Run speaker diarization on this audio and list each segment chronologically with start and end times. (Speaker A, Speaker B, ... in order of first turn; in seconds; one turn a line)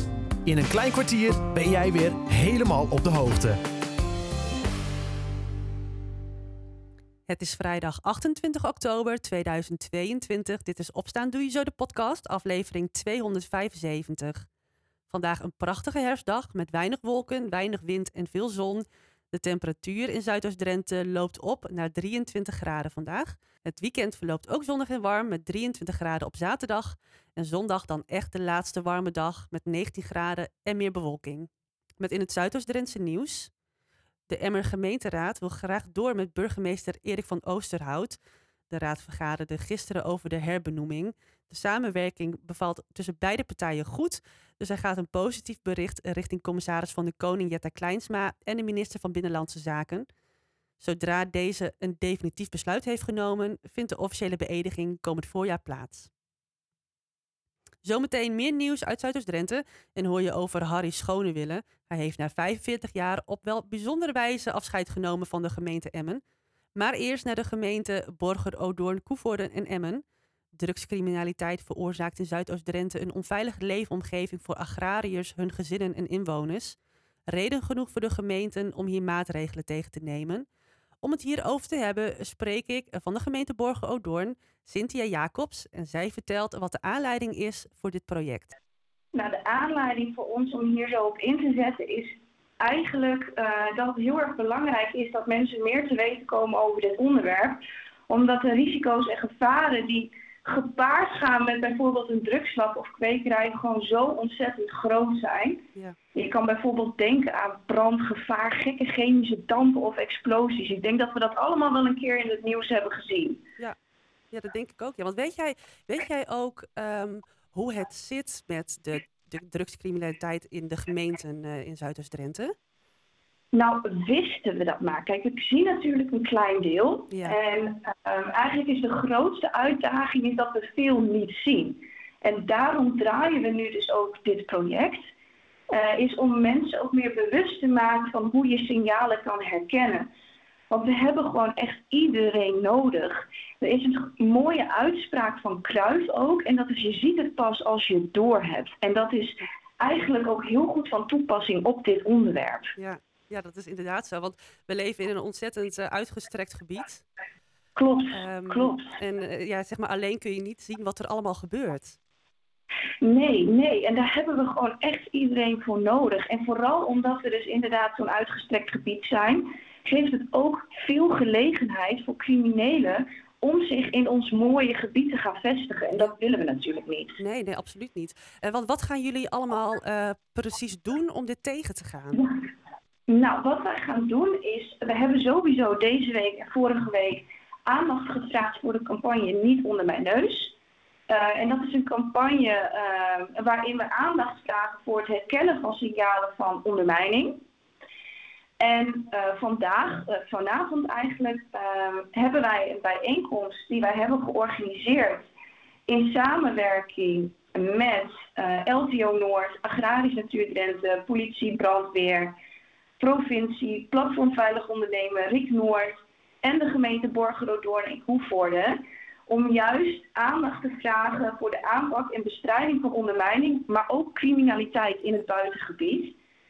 Speaker A: 0.4-3.6
Speaker B: 7.3-14.5
Speaker B: 15.1-33.5
Speaker B: 34.3-38.2
Speaker B: 38.7-50.1
Speaker B: 50.8-56.1
Speaker B: 57.8-66.2
Speaker B: 66.8-70.0
Speaker B: 70.5-76.8
Speaker B: 77.3-80.4
Speaker B: 81.0-88.5
Speaker C: 89.1-113.4
Speaker B: 114.3-122.5
Speaker C: 123.5-135.1
Speaker B: 127.1-127.4
Speaker C: 135.7-140.1
Speaker C: 140.7-152.7
Speaker B: 152.8-157.0
Speaker C: 157.8-158.9
Speaker B: 158.1-162.0
Speaker C: 163.0-177.2
Speaker B: 177.2-182.2
Speaker C: 183.1-190.5
Speaker C: 191.1-197.4
Speaker C: 198.6-205.3
Speaker C: 205.9-212.3
Speaker C: 213.0-226.2